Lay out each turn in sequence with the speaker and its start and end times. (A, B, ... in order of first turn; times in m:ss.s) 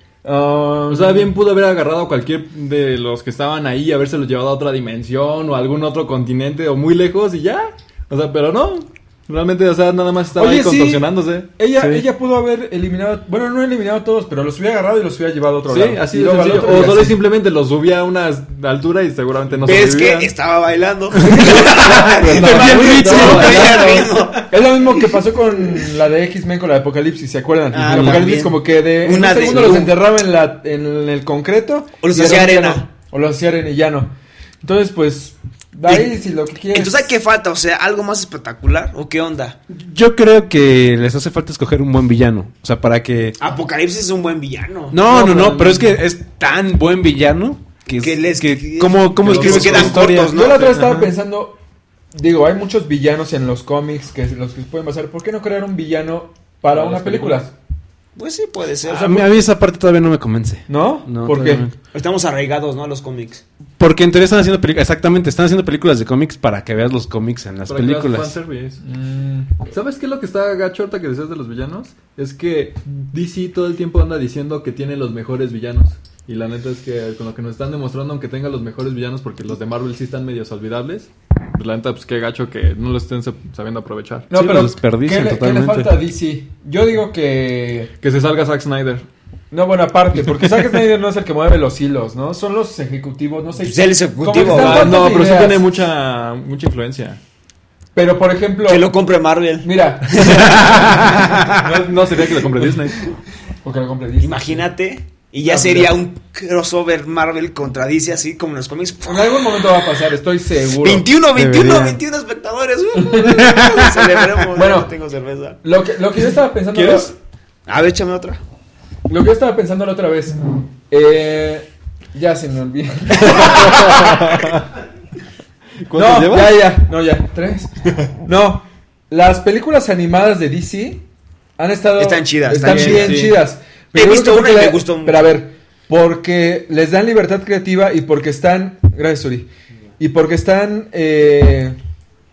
0:00.2-0:01.3 A
0:00.9-0:12.0 B
0:10.3-0:17.2 A
0:15.7-0:20.3 B
0:19.6-0:24.6 C
0:21.4-0:37.1 A
0:21.6-0:24.0 D
0:22.2-0:24.1 B
0:27.7-0:30.0 C
0:32.0-0:32.8 C
0:36.7-0:39.6 C
0:39.7-0:43.4 D
0:43.4-0:45.0 C
0:44.9-0:50.4 D
0:48.0-0:50.8 C
0:49.2-0:50.0 B
0:50.1-0:51.6 A
0:52.1-0:57.5 A
0:56.7-0:57.5 B
0:58.2-0:59.2 C
0:58.9-1:01.7 D
1:00.7-1:01.6 A
1:01.9-1:03.4 C
1:03.8-1:08.4 D
1:07.7-1:08.8 B
1:08.8-1:09.5 A
1:09.7-1:24.3 B
1:24.3-1:27.9 A
1:24.3-1:26.0 D
1:28.0-1:29.1 B
1:29.5-1:35.6 A
1:33.6-1:35.1 C
1:34.5-1:37.2 B
1:37.9-1:38.9 A
1:38.7-1:41.6 C
1:39.6-1:41.1 A
1:41.5-1:43.0 B
1:43.6-1:44.6 A
1:44.2-1:49.5 C
1:45.4-1:45.9 A
1:49.0-1:51.1 A
1:50.8-1:55.6 C
1:51.4-1:52.0 D
1:53.0-1:53.7 A
1:53.4-1:53.9 D
1:54.5-1:54.9 A
1:55.6-1:57.1 A
1:56.7-1:57.1 D
1:57.7-1:58.4 C
1:59.1-2:00.4 A
2:00.9-2:04.4 A
2:03.3-2:04.6 B
2:05.8-2:06.7 B
2:05.9-2:11.0 A
2:11.6-2:21.8 A
2:12.0-2:13.3 C
2:12.5-2:13.4 B
2:13.9-2:15.3 C